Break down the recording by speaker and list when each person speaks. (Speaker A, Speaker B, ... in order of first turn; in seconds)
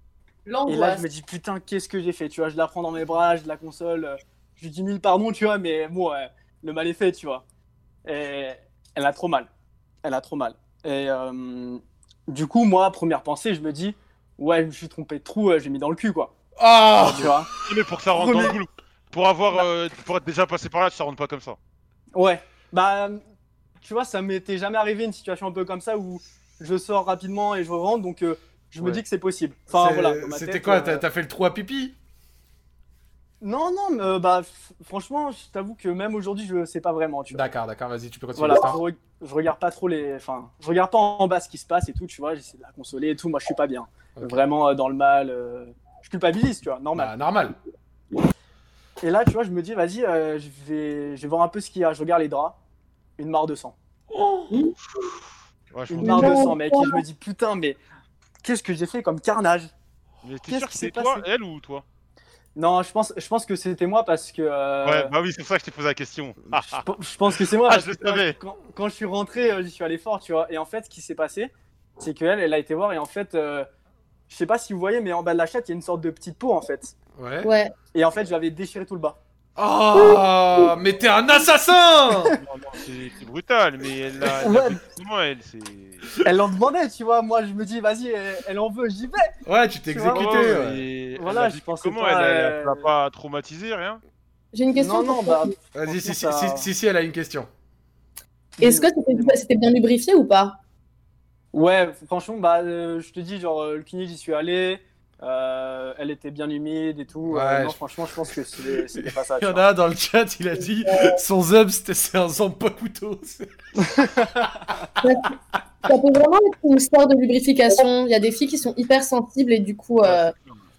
Speaker A: 0.5-1.0, 56.0-57.0, 77.4-77.7, 80.0-80.2, 94.5-95.5, 98.6-100.6, 115.0-120.3
Speaker B: 0.7-7.4, 8.0-9.5, 10.0-16.3, 17.0-17.5, 18.1-18.6, 22.1-23.2, 23.8-31.0, 33.4-37.4, 38.4-47.1, 49.0-52.6, 53.2-53.7, 55.9-57.8, 58.4-59.7, 60.5-61.2, 62.5-65.1, 66.7-73.7, 74.3-76.9, 77.9-79.2, 84.4-84.8, 86.2-89.4, 89.9-90.6, 91.2-92.9, 94.7-96.7, 98.6-99.4, 101.5-109.6, 113.8-114.6
Speaker C: 16.6-17.3, 29.7-31.9, 37.3-38.8, 44.2-44.4, 46.9-47.5, 54.1-54.5, 77.2-77.5, 79.6-82.3, 89.4-90.8, 95.7-97.5, 107.3-107.8, 109.0-115.0
Speaker D: 17.0-21.6, 55.7-56.5, 60.2-61.8, 64.8-68.4, 82.4-86.2, 90.1-94.0, 120.0-120.6